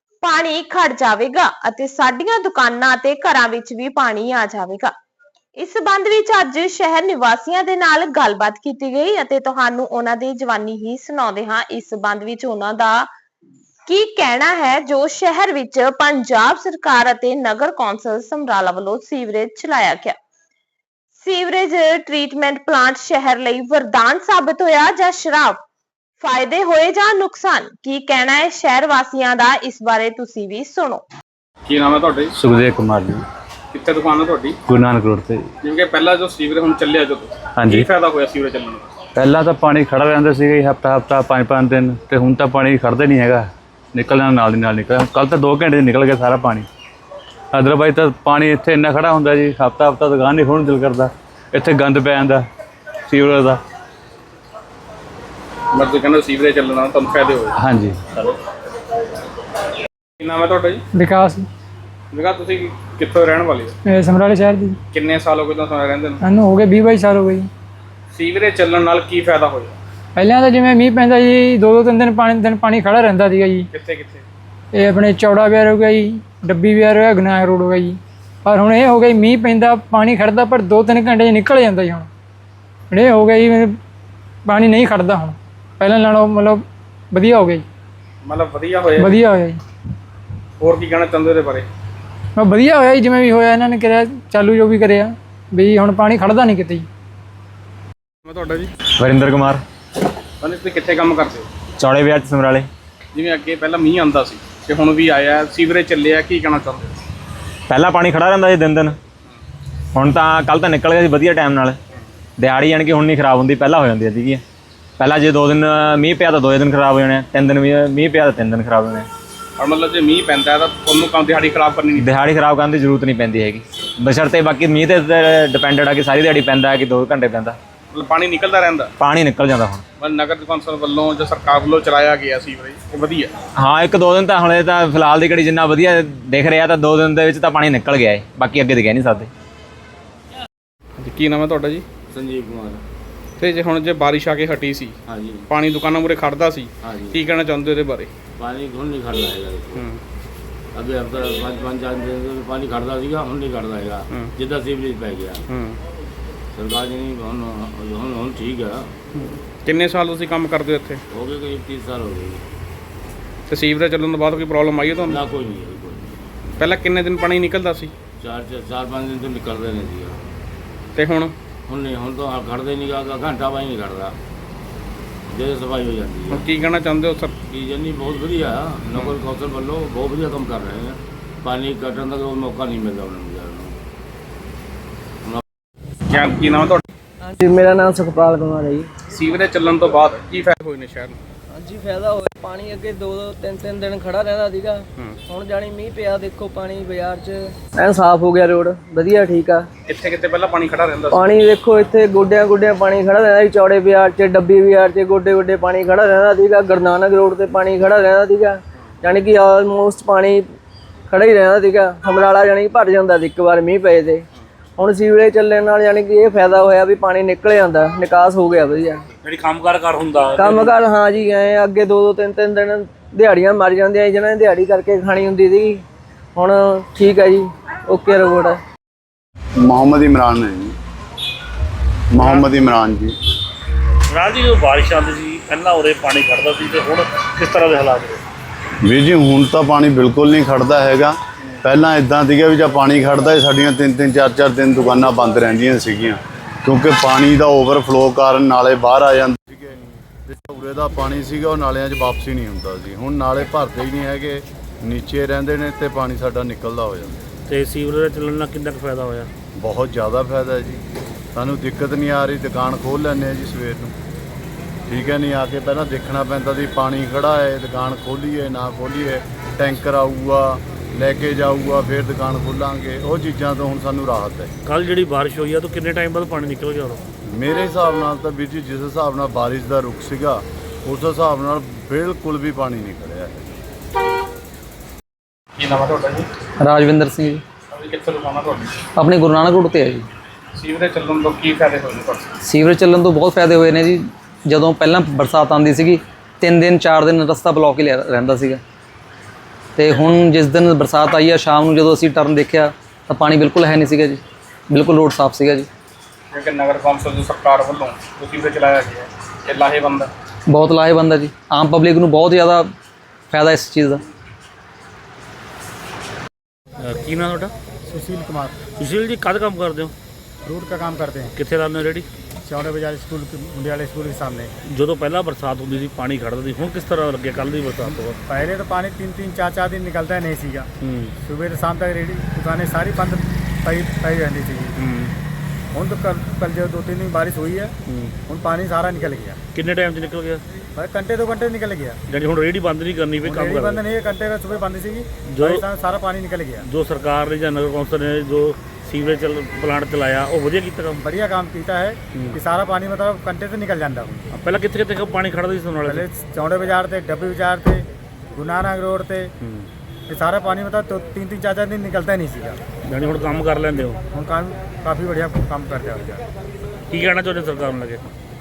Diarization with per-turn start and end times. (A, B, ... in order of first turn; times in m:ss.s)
0:00.2-0:04.9 A
0:05.6-0:13.1 A
0:13.9-0:20.2 A
0:21.2-0:25.6 A
0:26.2-0:31.0 A
0:31.7-0:32.3 B
0:32.4-0:33.2 C
0:33.7-0:34.6 B
0:34.7-0:35.4 C
0:35.6-0:38.9 B
0:39.2-0:46.7 C
0:47.5-0:52.4 C
0:53.1-0:53.6 C
0:55.8-0:57.5 B
0:57.6-0:58.0 C
1:00.2-1:00.8 B
1:00.9-1:01.5 D
1:02.1-1:03.7 B
1:03.8-1:04.8 D
1:04.9-1:06.2 B
1:06.2-1:07.5 D
1:08.1-1:09.7 B
1:10.2-1:13.7 D
1:13.7-1:14.2 B
1:14.7-1:22.1 D
1:22.9-1:23.8 D
1:24.4-1:27.6 D
1:28.2-1:29.2 B
1:29.0-1:29.6 D
1:30.6-1:31.7 B
1:32.4-1:36.9 D
1:38.2-1:38.7 B
1:39.0-1:39.6 E
1:40.4-1:41.4 B
1:41.8-1:42.7 E
1:43.1-1:46.8 B
1:47.7-1:49.0 E
1:49.9-1:51.8 E
1:52.4-1:54.4 E
1:55.0-1:59.1 E
1:59.6-2:02.1 B
2:01.9-2:07.6 E
2:07.9-2:08.9 B
2:09.0-2:09.8 E
2:10.0-2:13.3 B
2:13.6-2:19.3 E
2:21.0-2:21.8 B
2:22.1-2:22.8 F
2:23.4-2:24.9 B
2:25.1-2:25.5 F
2:25.5-2:28.1 B
2:26.8-2:27.2 F
2:28.4-2:29.8 F
2:30.8-2:35.5 F
2:35.5-2:35.8 B
2:36.6-2:38.9 F
2:39.2-2:41.0 B
2:41.1-2:42.4 F
2:43.5-2:45.2 B
2:45.1-2:46.2 F
2:46.6-2:47.9 B
2:48.2-2:50.2 F
2:51.0-2:51.3 B
2:51.7-2:54.2 F
2:55.3-2:56.4 F
2:56.3-2:57.3 B
2:57.5-3:03.7 F
3:06.1-3:06.8 B
3:07.2-3:08.9 G
3:09.1-3:11.2 B
3:11.5-3:19.7 G
3:19.8-3:21.4 B
3:21.1-3:30.5 G
3:31.1-3:34.2 G
3:34.8-3:39.0 G
3:39.2-3:40.8 H
3:40.4-3:45.8 G
3:46.4-3:48.6 G
3:49.6-3:50.8 I
3:52.1-3:53.1 I
3:52.2-3:52.5 H
3:54.1-3:58.2 H
3:58.8-4:17.2 I
4:17.5-4:19.3 H
4:19.6-4:20.8 I
4:21.3-4:23.9 I
4:24.9-4:34.5 I
4:34.6-4:37.0 H
4:37.3-4:43.6 I
4:45.6-4:46.3 B
4:46.6-4:47.4 J
4:47.7-4:48.7 B
4:49.0-4:50.1 J
4:50.6-4:52.3 B
4:52.4-4:58.6 J
4:59.8-5:05.7 J
5:06.3-5:10.1 B
5:10.5-5:12.7 J
5:13.3-5:14.0 J
5:16.8-5:17.5 H
5:17.9-5:18.6 K
5:18.8-5:19.9 H
5:20.4-5:21.3 K
5:21.4-5:22.0 H
5:22.4-5:24.5 K
5:24.7-5:28.2 H
5:27.9-5:30.7 K
5:30.8-5:31.1 H
5:31.2-5:34.8 K
5:34.8-5:35.1 H
5:35.7-5:37.7 K
5:37.9-5:38.1 H
5:38.3-5:39.4 K
5:39.5-5:40.4 H
5:40.8-5:42.0 K
5:42.1-5:43.8 H
5:43.2-5:46.6 K
5:45.3-5:45.6 H
5:46.6-5:51.0 H
5:51.0-5:54.3 K
5:54.3-5:56.0 H
5:55.8-5:59.3 K
5:59.4-5:59.7 H
6:00.1-6:02.6 K
6:02.8-6:04.0 H
6:04.1-6:06.2 K
6:06.9-6:08.0 H